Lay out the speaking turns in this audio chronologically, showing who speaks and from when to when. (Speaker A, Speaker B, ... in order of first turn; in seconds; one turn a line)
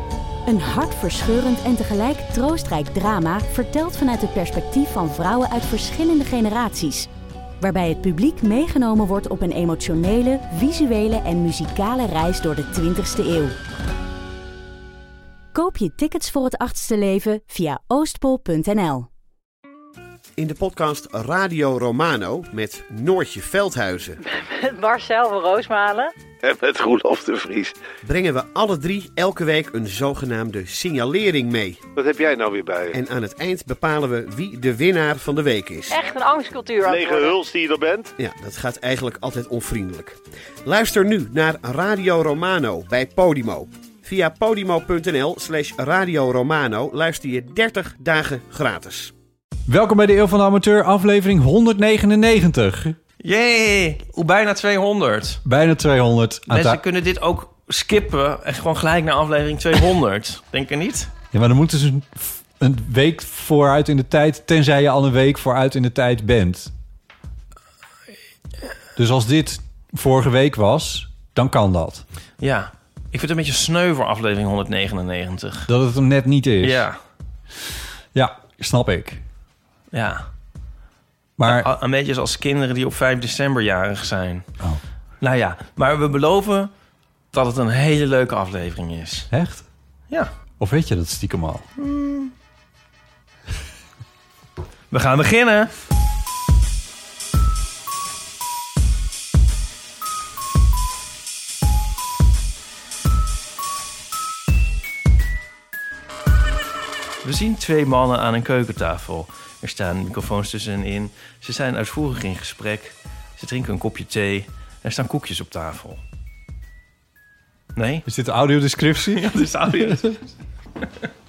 Speaker A: 0.5-7.1
Speaker A: 7.6-13.6
Speaker A: 15.5-19.1
Speaker B: 20.4-24.2
Speaker C: 24.2-26.1
Speaker D: 26.4-27.8
Speaker B: 28.0-31.8
Speaker D: 31.9-33.0
Speaker B: 32.9-36.0
Speaker C: 35.9-37.4
Speaker D: 36.8-38.1
Speaker B: 38.2-49.1
Speaker E: 49.7-53.0
Speaker F: 53.2-55.4
Speaker E: 55.4-56.8
Speaker F: 56.5-61.1
Speaker E: 61.3-66.7
Speaker E: 69.0-72.0
Speaker F: 72.4-75.7
Speaker E: 75.7-76.9
Speaker F: 76.6-77.0
Speaker E: 78.1-79.2
Speaker F: 79.9-80.3
Speaker E: 81.4-81.7
Speaker F: 81.4-84.5
Speaker F: 85.2-86.7
Speaker F: 87.3-89.3
Speaker E: 89.3-89.7
Speaker E: 90.6-91.7
Speaker F: 91.8-92.3
Speaker F: 94.9-95.7
Speaker F: 107.2-116.0
Speaker F: 117.8-118.0
Speaker E: 118.0-120.1
Speaker F: 119.1-120.2